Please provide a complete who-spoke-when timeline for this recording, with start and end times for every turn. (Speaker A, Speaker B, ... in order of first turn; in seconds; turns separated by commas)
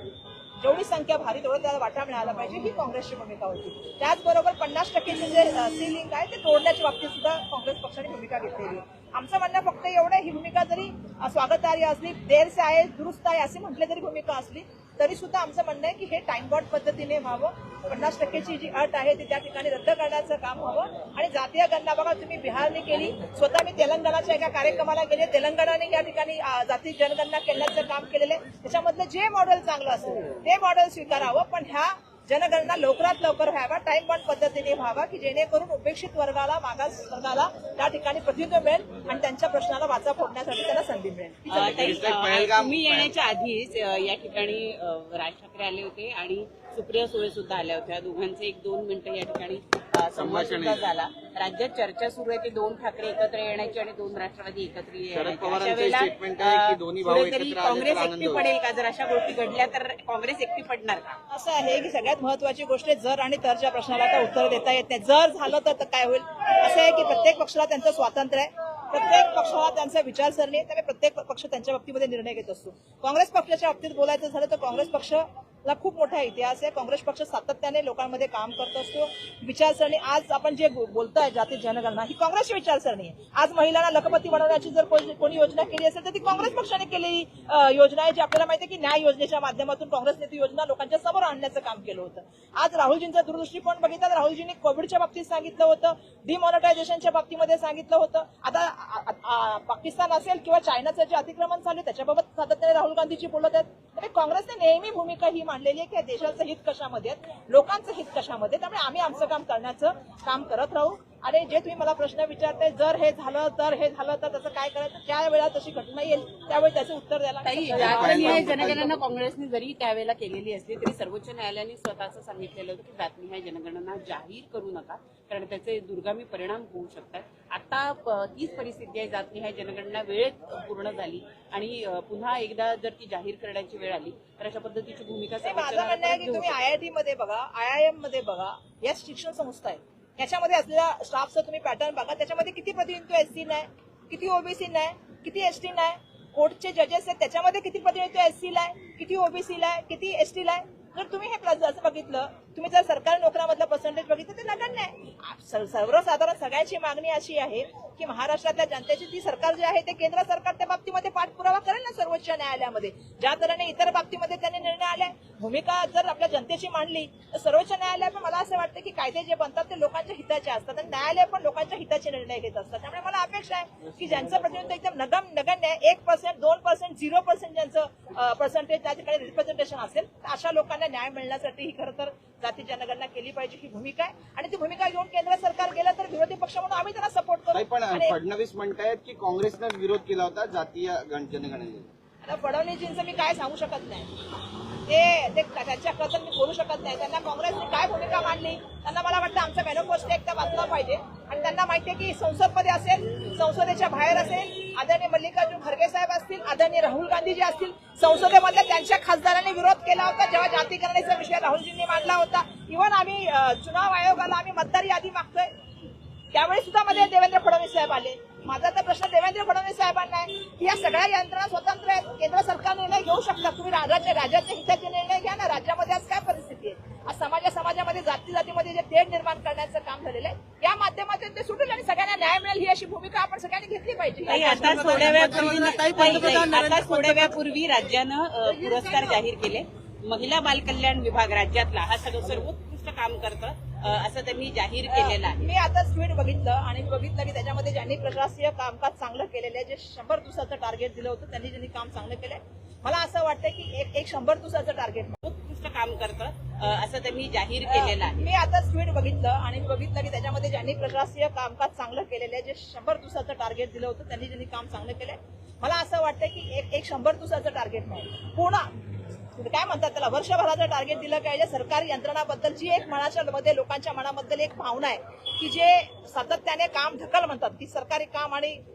Speaker A: 0.6-42.0, Speaker B: 41.5-61.2, Speaker C: 41.5-43.1, Speaker C: 50.1-50.9, Speaker C: 55.1-58.5, Speaker A: 61.3-118.8, Speaker B: 117.4-136.6, Speaker C: 117.7-119.0, Speaker A: 135.4-188.2, Speaker C: 187.5-191.9, Speaker A: 192.2-194.1, Speaker A: 194.9-215.5, Speaker A: 216.3-237.3, Speaker B: 234.3-245.5, Speaker C: 234.6-236.9, Speaker A: 244.9-255.2, Speaker B: 255.2-258.3, Speaker A: 257.6-268.7, Speaker A: 269.4-278.6